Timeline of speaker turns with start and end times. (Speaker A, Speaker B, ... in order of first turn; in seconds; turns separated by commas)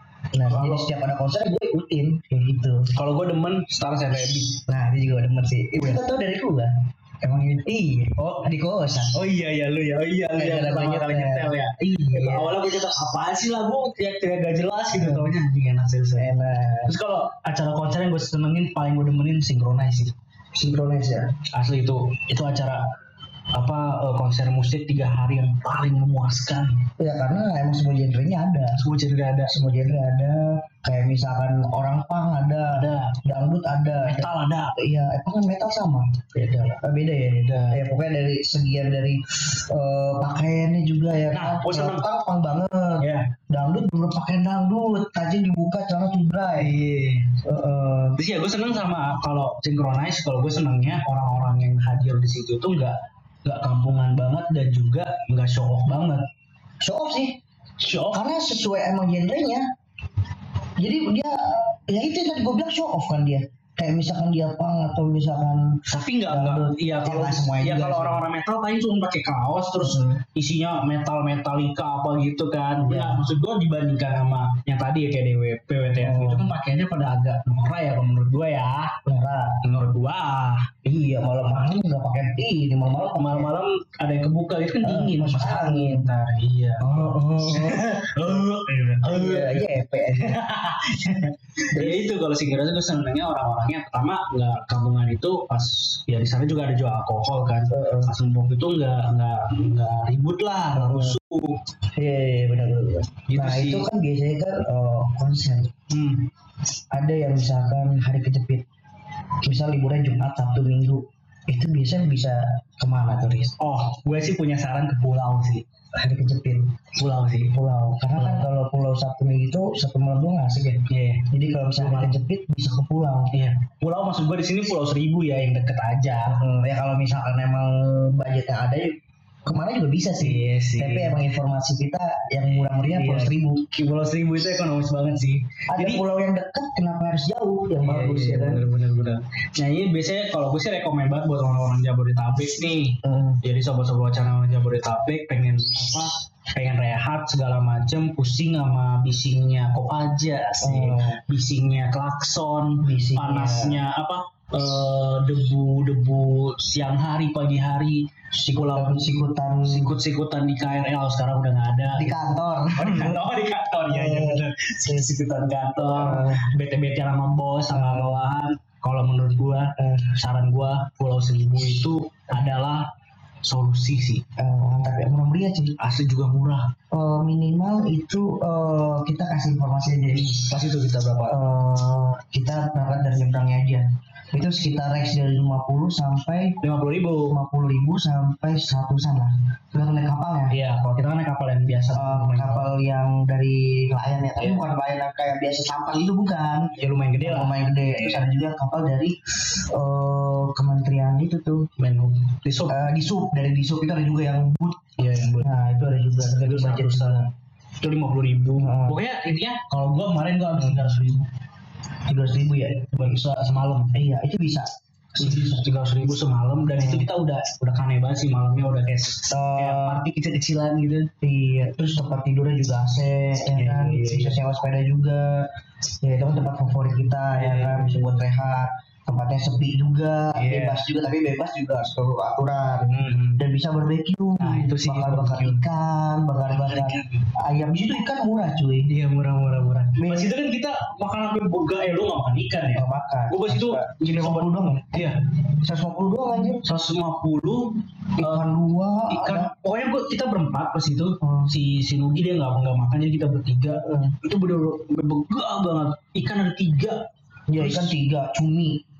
Speaker A: 0.3-2.9, Speaker B: 0.5-0.9, Speaker B: 2.9-4.6, Speaker A: 4.7-6.7, Speaker A: 7.2-9.2, Speaker B: 7.3-8.5, Speaker B: 9.1-16.3, Speaker A: 10.3-12.6, Speaker A: 14.9-15.3, Speaker A: 16.2-16.9, Speaker B: 16.9-20.1, Speaker A: 20.6-21.4, Speaker B: 21.5-22.9, Speaker B: 23.5-26.8, Speaker A: 27.0-28.8, Speaker B: 28.8-29.6, Speaker A: 29.5-46.7, Speaker B: 32.7-33.2, Speaker B: 34.0-34.8, Speaker B: 37.4-37.8, Speaker B: 41.3-42.1, Speaker B: 43.0-43.3, Speaker B: 46.6-47.3, Speaker A: 47.4-48.2, Speaker B: 48.2-56.3, Speaker A: 56.8-57.4, Speaker B: 57.8-58.2, Speaker A: 58.1-59.6, Speaker A: 60.8-68.2, Speaker B: 65.9-79.0, Speaker A: 69.8-70.2, Speaker A: 72.9-73.2, Speaker A: 76.0-76.5, Speaker A: 79.1-79.6, Speaker B: 79.6-80.7, Speaker A: 80.8-83.5, Speaker B: 82.9-101.6, Speaker A: 84.8-86.1, Speaker A: 86.8-88.5, Speaker A: 89.0-90.4, Speaker A: 91.7-92.0, Speaker A: 97.7-98.1, Speaker A: 100.7-101.2, Speaker A: 102.0-105.7, Speaker B: 103.3-103.9, Speaker B: 105.9-106.3, Speaker A: 106.9-108.7, Speaker A: 109.4-113.5, Speaker B: 113.6-115.6, Speaker A: 116.0-116.7, Speaker B: 117.0-117.5, Speaker A: 117.5-123.3, Speaker B: 118.2-118.5, Speaker B: 120.9-122.2, Speaker B: 123.3-126.4, Speaker A: 126.3-133.7, Speaker B: 130.2-131.3, Speaker B: 132.4-136.0, Speaker A: 135.7-138.7, Speaker B: 137.8-159.1, Speaker A: 143.0-143.4, Speaker A: 150.6-151.2, Speaker A: 152.8-153.8, Speaker A: 158.5-160.0, Speaker B: 159.7-172.9, Speaker A: 161.9-163.2, Speaker A: 163.9-164.4, Speaker A: 165.8-166.5, Speaker A: 167.7-168.2, Speaker A: 169.8-170.1, Speaker B: 173.4-174.2, Speaker A: 174.4-175.8, Speaker B: 175.8-176.7, Speaker A: 176.9-180.5, Speaker B: 180.5-181.4, Speaker A: 181.2-186.6, Speaker B: 186.6-187.4, Speaker A: 187.3-190.5, Speaker B: 190.5-192.7, Speaker A: 191.9-201.7, Speaker B: 196.7-198.2, Speaker B: 201.8-202.8, Speaker A: 202.7-204.8, Speaker B: 205.0-205.5, Speaker A: 205.4-207.3, Speaker B: 206.3-207.3, Speaker B: 207.8-211.3, Speaker A: 208.6-209.0, Speaker A: 210.6-210.9, Speaker A: 212.1-215.7, Speaker B: 212.9-213.9, Speaker B: 215.2-221.1, Speaker A: 216.7-217.1, Speaker A: 219.3-220.0, Speaker A: 221.2-225.5, Speaker B: 223.5-224.4, Speaker A: 226.0-238.9, Speaker B: 227.4-228.1, Speaker B: 230.3-230.8, Speaker B: 232.9-233.4, Speaker B: 234.4-235.6, Speaker B: 236.5-237.3, Speaker B: 238.9-245.2, Speaker A: 240.0-240.3, Speaker A: 242.8-246.7, Speaker B: 246.6-248.5, Speaker A: 248.2-249.5, Speaker B: 249.1-258.0, Speaker A: 251.2-251.5, Speaker A: 253.8-254.2, Speaker A: 257.5-258.8